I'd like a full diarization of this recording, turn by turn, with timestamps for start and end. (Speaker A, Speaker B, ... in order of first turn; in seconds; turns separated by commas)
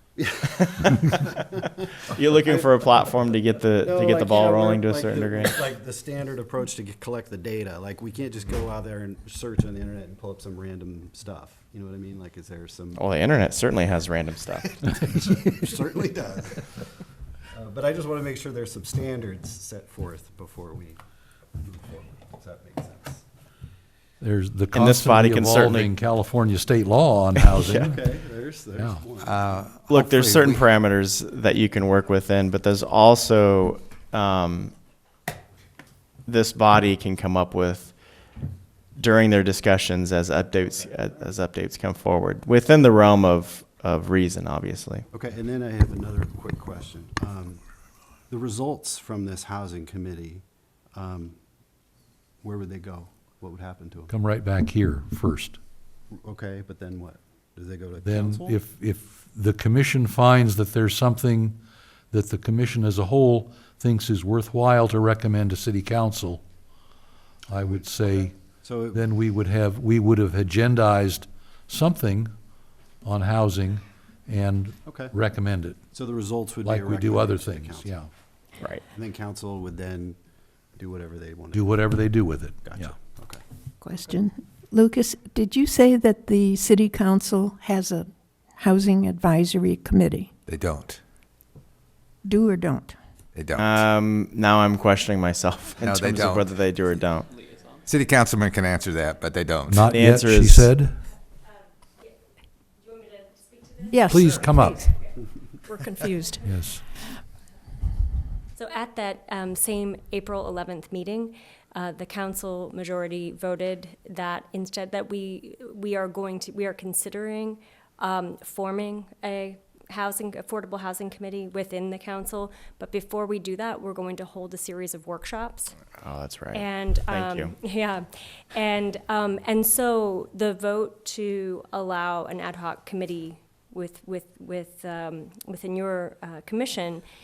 Speaker A: 0.2-1.4, Speaker B: 2.1-5.6, Speaker A: 2.4-13.0, Speaker B: 12.9-14.8, Speaker A: 14.8-16.7, Speaker A: 17.5-21.0, Speaker A: 21.6-23.2, Speaker C: 24.2-28.0, Speaker B: 24.7-25.9, Speaker B: 27.3-27.9, Speaker A: 27.6-29.7, Speaker D: 29.2-30.7, Speaker B: 29.9-34.7, Speaker B: 36.2-37.9, Speaker B: 39.0-45.0, Speaker A: 45.1-47.6, Speaker A: 48.3-50.4, Speaker A: 50.9-51.4, Speaker A: 52.4-54.1, Speaker C: 54.1-55.6, Speaker A: 56.1-58.6, Speaker C: 58.0-61.6, Speaker C: 62.1-66.4, Speaker C: 67.5-68.4, Speaker A: 68.6-69.0, Speaker C: 68.9-72.3, Speaker C: 73.0-75.8, Speaker A: 74.8-75.1, Speaker A: 75.9-78.0, Speaker C: 76.6-78.1, Speaker A: 78.9-80.2, Speaker A: 80.8-81.8, Speaker C: 81.5-82.9, Speaker A: 82.6-83.4, Speaker E: 83.8-90.3, Speaker D: 90.5-91.0, Speaker E: 92.2-93.0, Speaker D: 93.3-93.8, Speaker B: 93.6-97.3, Speaker D: 95.8-96.5, Speaker D: 97.9-99.9, Speaker C: 99.7-101.0, Speaker B: 99.9-100.7, Speaker F: 102.8-105.2, Speaker E: 103.8-104.9, Speaker C: 104.0-104.9, Speaker E: 105.7-106.5, Speaker C: 106.4-106.8, Speaker F: 106.5-106.8, Speaker F: 108.5-125.8, Speaker B: 126.0-127.5, Speaker F: 126.5-137.0